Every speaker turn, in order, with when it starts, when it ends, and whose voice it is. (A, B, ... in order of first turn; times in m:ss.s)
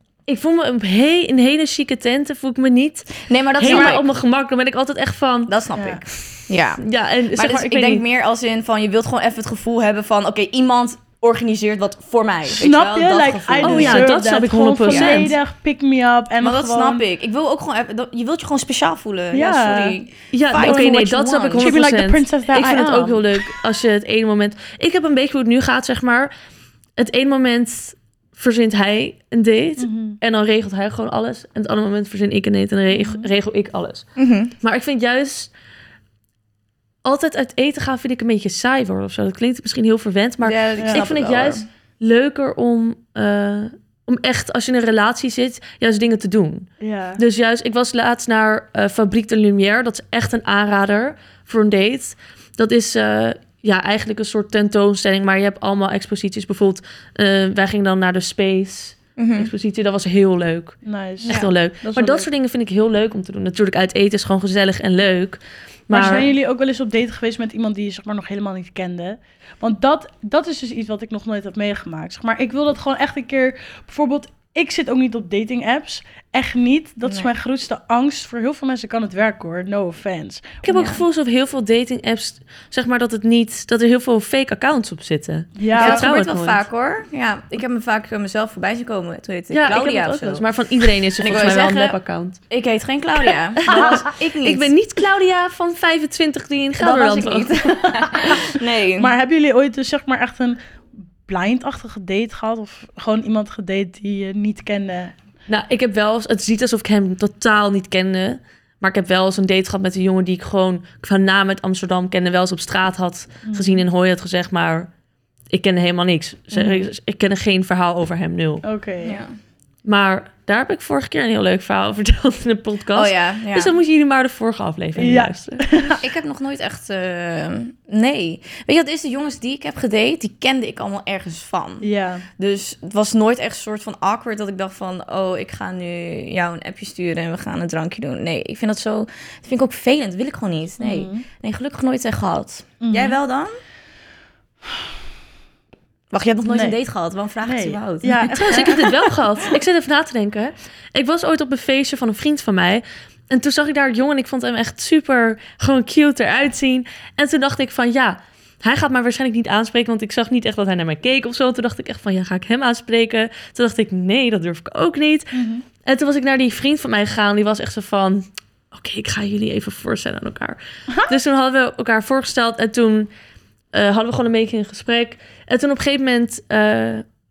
0:00.3-0:05.5 A
0:03.2-0:04.0 B
0:05.5-0:14.1 B
0:05.8-0:06.0 C
0:06.8-0:08.0 A
0:12.5-0:17.0 C
0:13.6-0:15.3 A
0:14.9-0:15.3 B
0:16.4-0:21.7 B
0:19.3-0:20.0 C
0:20.3-0:26.3 A
0:20.5-0:21.0 C
0:21.6-0:23.3 C
0:27.0-0:34.0 A
0:29.8-0:30.2 C
0:32.9-0:33.3 C
0:34.2-0:34.5 B
0:34.6-0:35.5 A
0:37.0-0:46.7 A
0:40.4-0:41.6 B
0:40.8-0:41.0 C
0:46.8-0:47.2 C
0:47.2-1:06.3 A
0:59.2-0:59.5 B
1:00.8-1:02.3 C
1:05.9-1:20.6 C
1:06.0-1:06.2 B
1:20.6-1:26.6 A
1:20.7-1:21.0 B
1:25.6-1:26.1 C
1:25.8-1:30.4 B
1:29.5-1:32.4 A
1:31.2-1:32.0 B
1:32.5-1:34.7 B
1:33.7-1:38.0 A
1:33.7-1:34.0 C
1:36.8-1:39.1 B
1:39.0-1:40.6 C
1:41.3-1:45.2 C
1:45.5-1:54.9 A
1:53.5-1:53.9 C
1:55.5-1:58.6 A
1:56.5-1:56.9 B
1:58.6-1:59.2 C
1:59.0-1:59.3 B
1:59.8-2:05.7 A
2:02.9-2:03.8 B
2:05.0-2:06.0 C
2:06.0-2:23.6 B
2:11.8-2:12.3 C
2:20.8-2:21.2 C
2:22.8-2:23.2 C
2:26.1-2:28.6 B
2:26.5-2:26.8 C
2:27.4-2:29.1 C
2:28.3-2:53.1 A
2:45.3-2:45.6 C
2:53.7-2:57.0 A